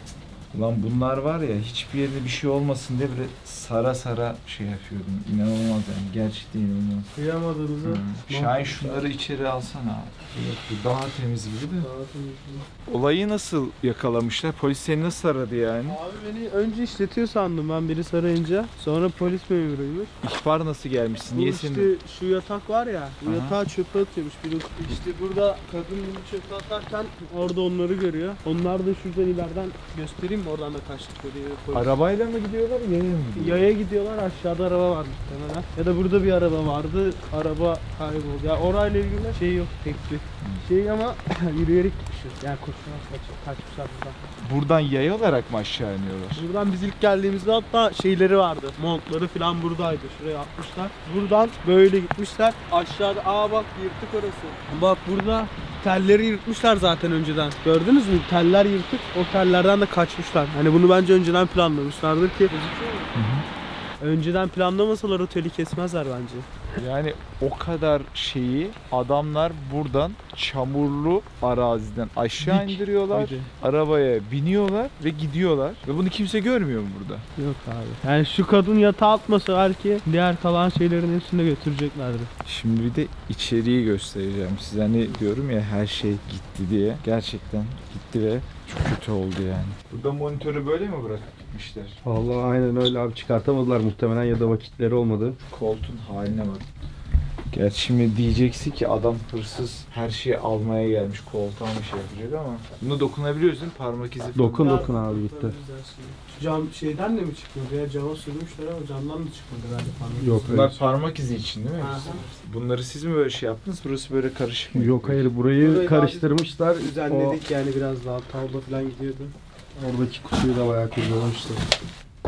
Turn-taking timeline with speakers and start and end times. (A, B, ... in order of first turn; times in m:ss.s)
0:00.5-0:07.1 A
0:07.1-0:09.0 B
0:07.8-0:11.9 A
0:11.8-0:12.7 B
0:12.9-0:16.0 A
0:15.9-0:20.1 B
0:20.2-0:21.9 A
0:21.3-0:32.0 B
0:23.2-0:23.6 A
0:31.7-0:33.7 A
0:33.4-0:44.2 B
0:40.4-0:40.7 A
0:44.4-0:46.5 A
0:46.4-1:03.1 B
1:03.2-1:03.5 A
1:04.0-1:06.5 B
1:06.8-1:17.3 A
1:12.4-1:13.5 B
1:17.4-1:22.3 B
1:22.4-1:32.0 A
1:32.0-1:35.4 C
1:35.5-1:36.7 A
1:37.5-1:44.8 A
1:44.3-1:45.5 C
1:44.6-1:50.7 B
1:50.2-1:50.8 C
1:50.5-1:55.3 A
1:51.8-1:52.4 B
1:54.7-1:57.4 C
1:55.6-1:59.3 B
1:59.8-2:01.7 C